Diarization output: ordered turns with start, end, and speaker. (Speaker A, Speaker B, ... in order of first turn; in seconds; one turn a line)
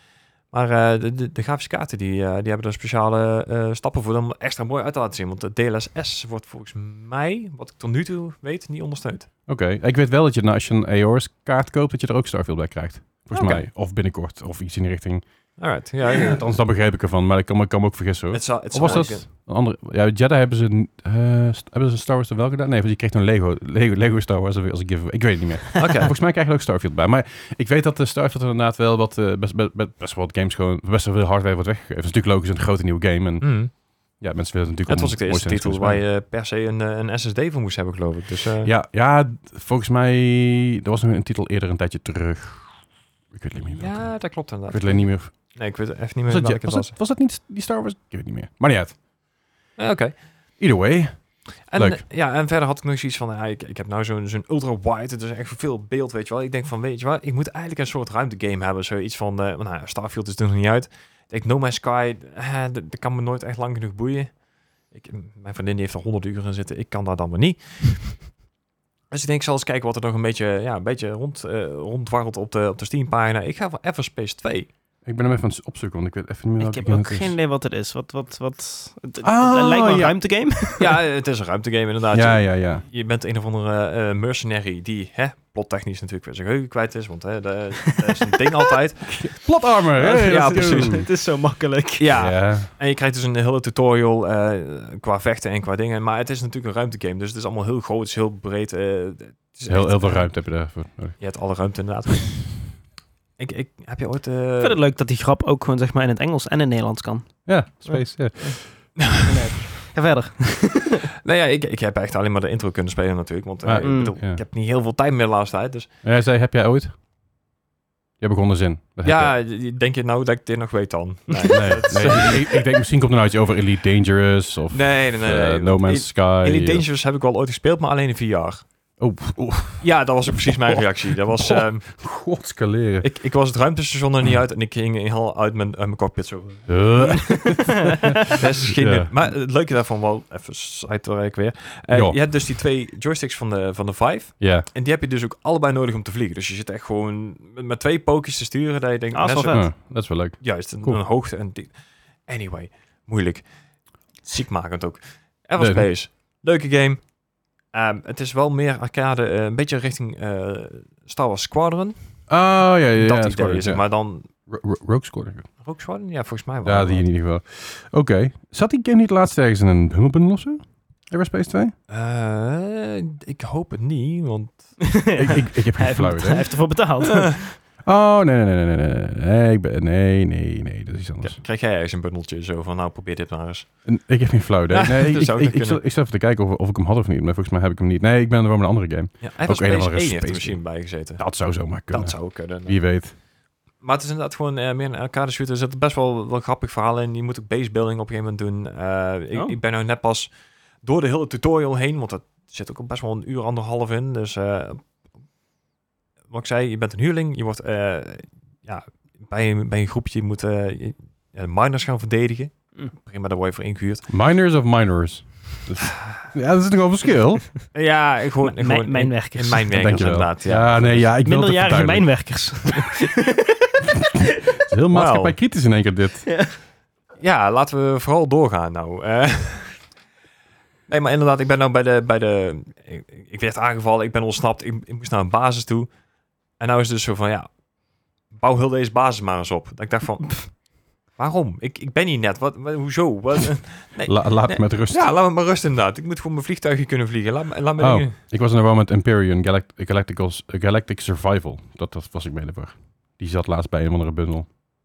Speaker A: 0.5-9.3
Speaker B: 9.5-15.2
Speaker A: 13.3-13.7
Speaker A: 15.6-16.4
Speaker B: 16.1-36.0
Speaker A: 18.3-19.3
Speaker A: 25.8-26.1
Speaker A: 33.4-33.7
Speaker A: 34.9-38.7
Speaker B: 38.6-42.8
Speaker B: 43.3-45.6
Speaker A: 43.6-46.9
Speaker B: 46.3-49.0
Speaker A: 49.8-50.2
Speaker B: 50.6-52.0
Speaker A: 51.7-68.3
Speaker A: 69.1-74.7
Speaker B: 75.0-77.3
Speaker C: 76.6-81.0
Speaker B: 79.2-80.2
Speaker A: 80.8-89.4
Speaker B: 82.1-82.8
Speaker B: 89.1-91.1
Speaker C: 90.0-92.1
Speaker A: 90.1-91.1
Speaker A: 92.0-100.4
Speaker B: 92.2-92.7
Speaker B: 99.7-101.2
Speaker A: 101.2-102.8
Speaker A: 103.4-104.8
Speaker C: 104.6-111.1
Speaker B: 107.5-108.6
Speaker A: 109.0-109.4
Speaker A: 111.2-115.9
Speaker B: 113.6-114.4
Speaker C: 113.8-114.2
Speaker B: 116.0-116.9
Speaker B: 118.2-119.3
Speaker A: 119.0-122.7
Speaker B: 121.5-126.8
Speaker A: 124.7-128.7
Speaker B: 129.0-133.1
Speaker A: 129.8-132.0
Speaker A: 133.0-137.2
Speaker B: 136.7-139.1
Speaker C: 137.4-137.7
Speaker A: 138.3-153.5
Speaker B: 141.9-142.4
Speaker B: 144.4-144.7
Speaker C: 149.1-149.7
Speaker B: 149.5-151.0
Speaker A: 154.2-157.1
Speaker B: 155.6-155.9
Speaker A: 157.7-162.0
Speaker B: 162.3-165.5
Speaker A: 163.0-164.3
Speaker A: 165.6-167.1
Speaker B: 166.6-171.8
Speaker A: 171.9-175.0
Speaker C: 174.8-177.6
Speaker B: 175.1-176.6
Speaker B: 177.8-181.4
Speaker A: 181.2-183.9
Speaker B: 183.8-193.2
Speaker A: 184.7-185.8
Speaker A: 189.2-192.8
Speaker A: 193.8-204.9
Speaker A: 206.3-214.1
Speaker B: 214.1-217.5
Speaker A: 217.7-221.1
Speaker C: 218.4-220.1
Speaker B: 219.7-222.1
Speaker C: 221.2-223.7
Speaker B: 224.2-226.3
Speaker A: 224.9-225.4
Speaker C: 226.3-226.5
Speaker A: 227.2-229.8
Speaker A: 230.9-235.9
Speaker A: 236.6-237.6
Speaker A: 238.3-248.2
Speaker B: 244.0-245.0
Speaker B: 247.8-254.5